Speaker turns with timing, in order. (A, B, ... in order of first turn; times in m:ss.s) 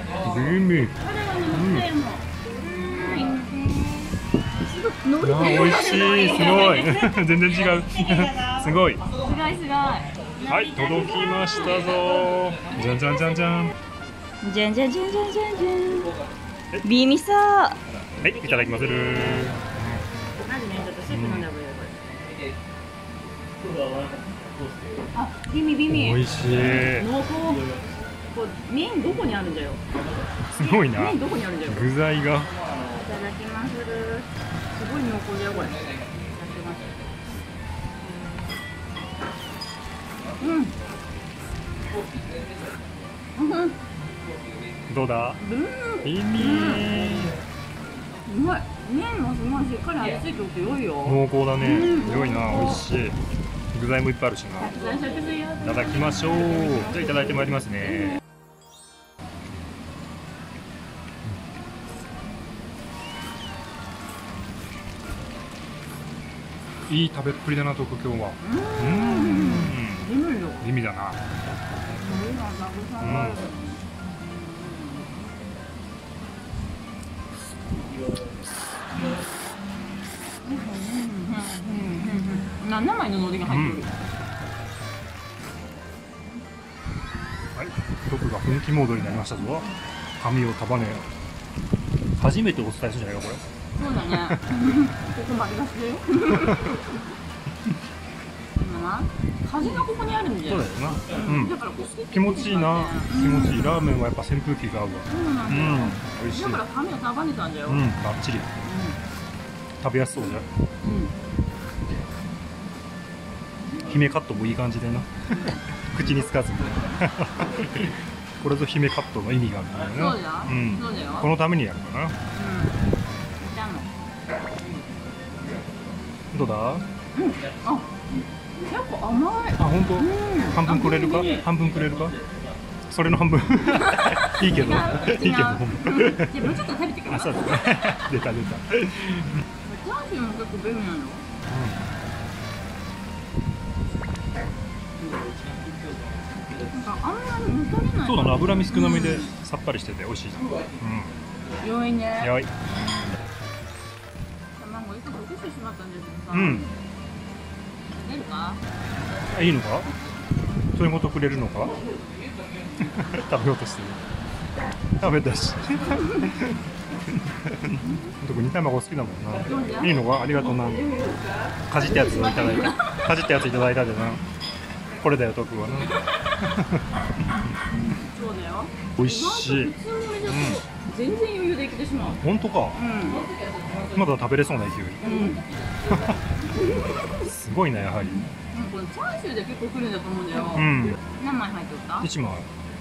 0:00.2-0:01.0 A
0:01.0-0:07.2 B
0:01.5-0:01.9 A
0:05.2-0:09.0 A
0:09.2-0:11.8 B
0:10.5-0:13.7 A
0:14.4-0:16.1 B
0:16.8-0:19.5 B
0:18.2-0:20.0 A
0:20.4-0:22.1 B
0:21.1-0:21.5 A
0:25.1-0:27.7 B
0:25.9-0:27.1 A
0:28.3-0:29.8 B
0:30.5-0:32.5 A
0:30.6-0:31.9 B
0:32.9-0:37.0 B
0:40.4-0:40.8 B
0:43.4-0:43.8 B
0:44.9-0:45.4 A
0:45.4-0:47.0 B
0:46.0-0:47.4 A
0:48.2-0:52.8 B
0:51.0-0:53.2 A
0:53.7-0:54.7 A
0:54.6-0:58.2 B
0:55.6-0:58.2 A
1:06.9-1:10.1 A
1:08.4-1:10.7 B
1:10.6-1:11.2 A
1:11.9-1:15.2 B
1:13.0-1:13.4 A
1:18.9-1:19.2 B
1:20.4-1:24.0 B
1:23.4-1:23.9 A
1:27.6-1:31.1 A
1:32.2-1:33.4 A
1:33.7-1:37.1 B
1:34.0-1:34.4 A
1:36.4-1:36.8 A
1:38.6-1:44.0 B
1:40.4-1:46.6 A
1:45.0-1:47.9 B
1:47.7-1:48.5 A
1:48.6-1:49.0 B
1:49.8-1:50.5 A
1:50.8-1:51.1 B
1:53.9-2:02.2 A
1:55.3-1:55.6 B
1:59.9-2:01.3 B
2:02.3-2:02.8 B
2:03.4-2:03.9 B
2:06.3-2:06.8 A
2:07.1-2:07.9 B
2:08.6-2:11.4 B
2:09.6-2:12.2 A
2:12.9-2:19.4 A
2:13.8-2:17.8 B
2:19.6-2:21.2 B
2:21.5-2:21.9 A
2:26.5-2:29.3 B
2:28.0-2:31.2 A
2:31.6-2:32.3 B
2:32.2-2:32.5 A
2:34.5-2:36.7 B
2:36.3-2:36.7 A
2:37.9-2:38.6 B
2:39.3-2:39.9 A
2:40.8-2:41.8 A
2:42.8-2:44.0 A
2:45.0-2:46.6 A
2:46.0-2:46.3 B
2:47.4-2:50.9 A
2:47.8-2:48.1 B
2:49.4-2:53.1 B
2:51.7-2:54.2 A
2:55.0-2:57.4 A
2:57.9-3:03.8 B
2:59.0-3:00.6 A
3:02.2-3:02.8 A
3:03.8-3:05.3 A
3:05.0-3:05.6 B
3:05.8-3:08.3 A
3:06.3-3:07.2 B
3:08.0-3:12.1 B
3:10.5-3:11.0 A
3:12.0-3:12.5 A